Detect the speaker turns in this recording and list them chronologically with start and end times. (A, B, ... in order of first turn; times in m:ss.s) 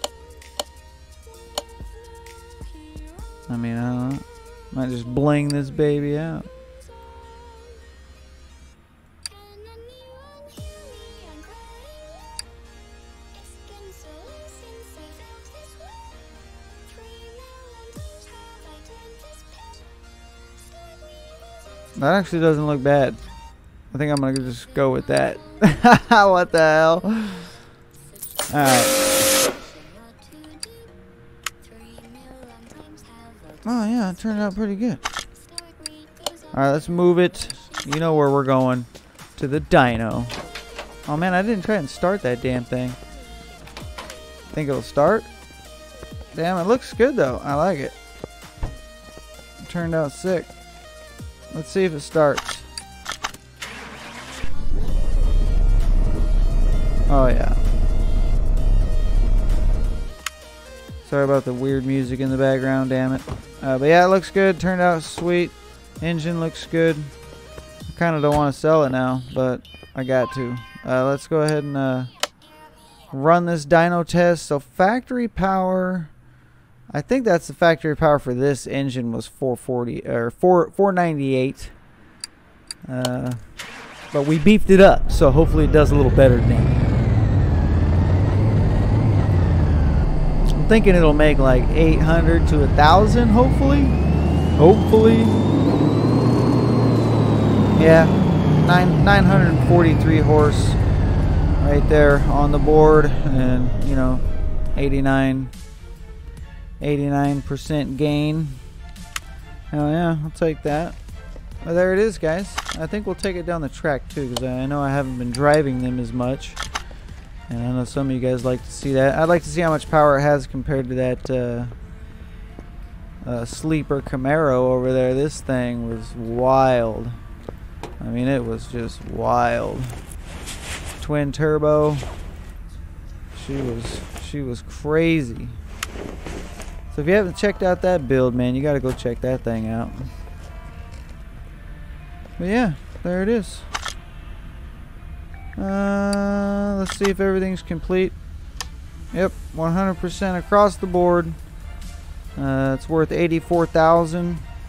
0:03.5-0:06.5 A
0:22.0-0:23.2 A
0:23.9-0:27.5 A
0:28.5-0:29.0 A
0:33.6-0:35.0 A
0:36.5-0:40.3 A
0:41.0-0:43.0 A
0:44.5-0:45.3 A
0:46.3-0:47.9 A
0:49.6-0:50.5 A
0:51.5-0:52.7 A
0:57.1-0:57.6 A
1:01.0-1:07.1 A
1:07.9-1:12.1 A
1:13.1-1:16.1 A
1:16.9-1:21.7 A
1:22.9-1:23.4 A
1:24.1-1:26.8 A
1:30.5-1:33.9 A
1:34.5-1:35.4 A
1:37.7-1:40.8 A
1:41.5-1:44.2 A
1:44.8-1:45.5 A
1:46.8-1:48.6 A
1:49.7-1:51.0 A
1:51.6-1:56.6 A
1:57.5-2:01.7 A
2:03.2-2:07.2 A
2:08.0-2:09.9 A
2:11.0-2:12.1 A
2:13.3-2:15.6 A
2:16.9-2:20.1 A
2:22.4-2:23.7 A
2:25.6-2:28.2 A
2:29.1-2:31.4 A
2:32.4-2:34.4 A